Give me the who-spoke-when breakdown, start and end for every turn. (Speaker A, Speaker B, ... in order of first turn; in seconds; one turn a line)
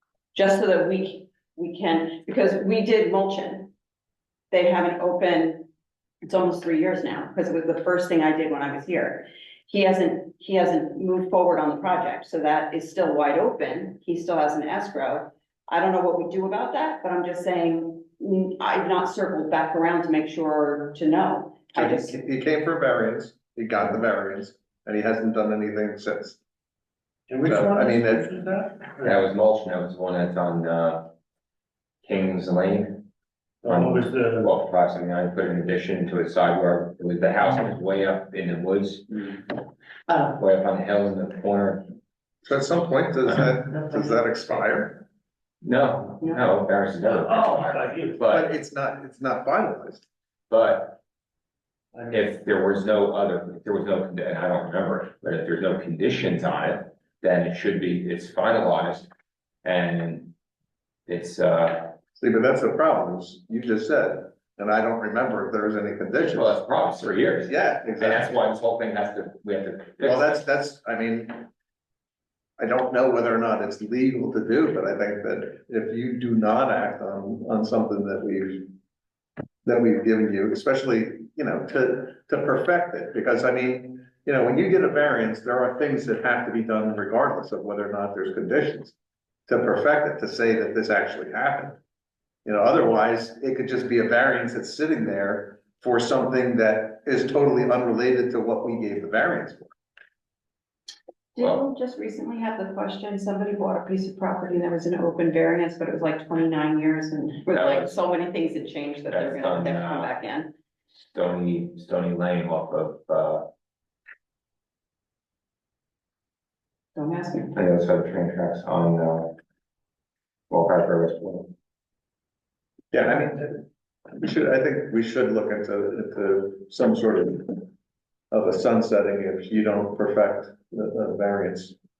Speaker A: 0.3-3.7
Speaker A: 4.5-5.7
Speaker A: 6.2-22.1
Speaker B: 21.7-26.4
Speaker C: 27.3-29.1
Speaker B: 27.4-28.3
Speaker D: 29.0-31.1
Speaker D: 32.0-33.0
Speaker C: 33.6-34.5
Speaker D: 33.6-39.5
Speaker D: 40.2-41.9
Speaker B: 42.4-45.0
Speaker D: 45.6-48.5
Speaker C: 47.2-48.1
Speaker B: 48.3-50.0
Speaker D: 50.5-51.0
Speaker D: 52.1-59.1
Speaker D: 59.6-60.3
Speaker D: 61.1-61.9
Speaker B: 62.2-66.5
Speaker D: 66.3-70.4
Speaker B: 67.5-68.4
Speaker B: 70.0-71.5
Speaker B: 72.6-78.7
Speaker B: 79.6-88.9
Speaker B: 89.5-91.8
Speaker B: 92.4-99.7
Speaker A: 101.3-110.5
Speaker D: 107.5-108.0
Speaker D: 109.1-110.1
Speaker D: 111.0-113.4
Speaker A: 116.9-117.5
Speaker D: 117.5-119.3
Speaker D: 120.5-121.5
Speaker B: 122.9-123.6
Speaker B: 124.1-127.7
Speaker B: 128.3-131.7